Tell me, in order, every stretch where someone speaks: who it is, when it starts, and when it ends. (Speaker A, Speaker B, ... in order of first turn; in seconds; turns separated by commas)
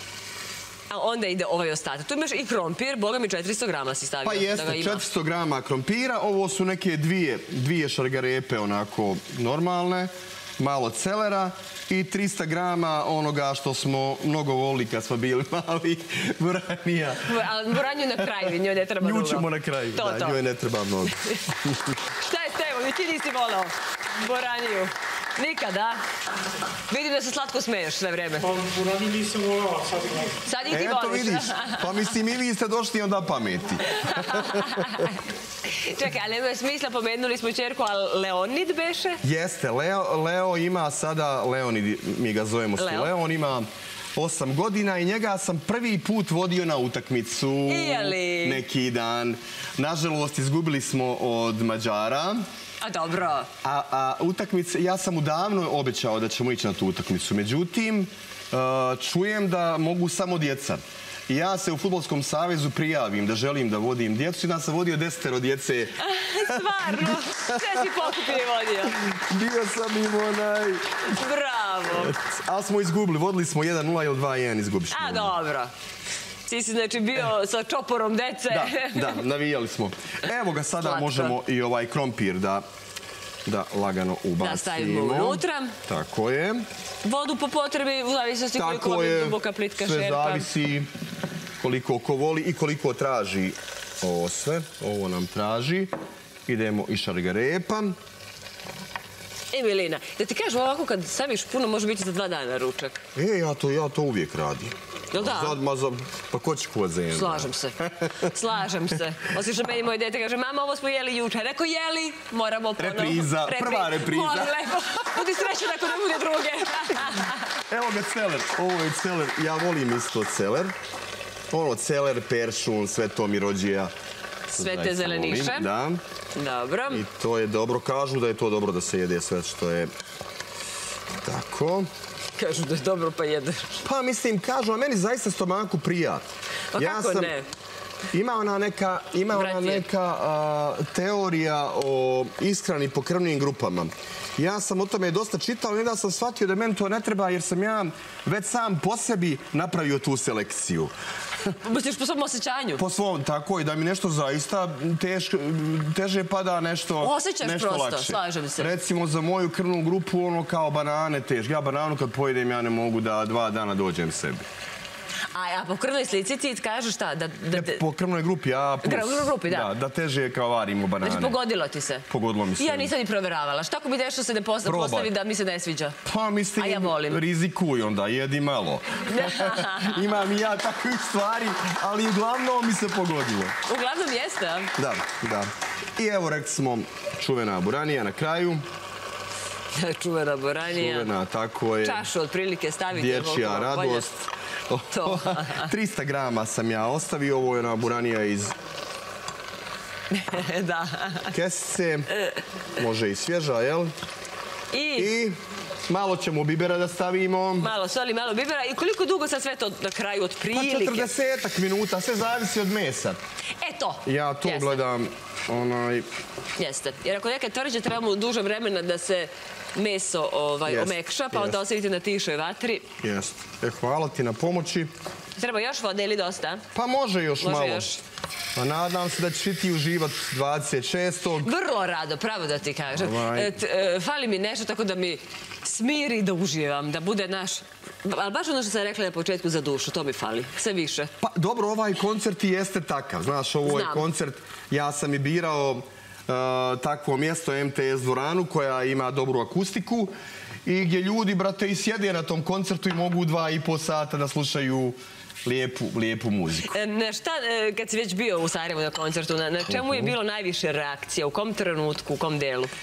Speaker A: 0.9-5.0, Speaker B: 4.2-17.4, Speaker A: 17.3-20.4, Speaker B: 18.2-22.0, Speaker A: 22.2-26.0, Speaker A: 26.9-28.5, Speaker C: 28.4-30.4, Speaker A: 30.4-31.9, Speaker B: 30.7-35.1, Speaker A: 33.9-39.2, Speaker B: 39.2-52.5, Speaker A: 42.8-43.1, Speaker A: 47.7-48.6, Speaker A: 52.8-53.5, Speaker B: 53.6-68.3, Speaker A: 66.0-69.0, Speaker B: 68.9-71.1, Speaker A: 71.1-72.1, Speaker B: 71.9-75.4, Speaker A: 74.9-75.7, Speaker A: 76.5-79.2, Speaker B: 78.5-82.7, Speaker A: 80.8-81.3, Speaker B: 83.5-86.7, Speaker A: 84.4-85.8, Speaker A: 87.0-90.5, Speaker B: 88.6-90.9, Speaker B: 91.6-95.9, Speaker B: 96.5-98.0, Speaker A: 99.5-103.0, Speaker B: 103.2-108.3, Speaker A: 105.1-105.6, Speaker A: 107.1-117.5, Speaker B: 112.8-114.7, Speaker B: 117.7-120.7, Speaker B: 121.5-123.9, Speaker A: 124.5-125.7, Speaker B: 124.5-126.0, Speaker A: 126.3-127.0, Speaker B: 126.9-129.9, Speaker B: 131.2-131.9, Speaker A: 132.4-133.8, Speaker B: 133.8-137.3, Speaker A: 136.7-137.5, Speaker B: 138.1-150.9, Speaker A: 139.3-139.8, Speaker A: 151.6-152.8, Speaker B: 152.8-164.5, Speaker A: 157.0-158.7, Speaker A: 165.3-167.8, Speaker B: 167.5-171.4, Speaker A: 168.8-169.7, Speaker A: 171.0-172.1, Speaker B: 172.1-172.9, Speaker A: 172.6-176.0, Speaker B: 174.7-175.1, Speaker B: 176.1-183.6, Speaker A: 176.6-177.2, Speaker A: 179.1-180.0, Speaker A: 183.7-184.7, Speaker B: 184.8-188.7, Speaker A: 189.8-191.1, Speaker B: 190.7-192.1, Speaker A: 191.8-194.1, Speaker B: 192.9-198.6, Speaker A: 194.9-195.7, Speaker A: 200.1-201.3, Speaker B: 201.3-202.1, Speaker A: 202.1-202.4, Speaker B: 202.8-203.9, Speaker A: 204.7-205.1, Speaker B: 205.0-207.7, Speaker A: 207.6-211.1, Speaker B: 210.5-213.2, Speaker A: 213.6-214.8, Speaker B: 214.1-216.1, Speaker A: 216.6-222.9, Speaker B: 220.7-221.6, Speaker B: 223.0-224.9, Speaker A: 225.4-226.6, Speaker B: 226.7-228.0, Speaker A: 227.4-228.0, Speaker B: 228.6-231.5, Speaker A: 231.4-241.1, Speaker B: 232.9-233.6, Speaker B: 241.2-250.1, Speaker A: 243.7-244.1, Speaker B: 250.7-256.7, Speaker A: 256.7-262.7, Speaker B: 259.7-260.2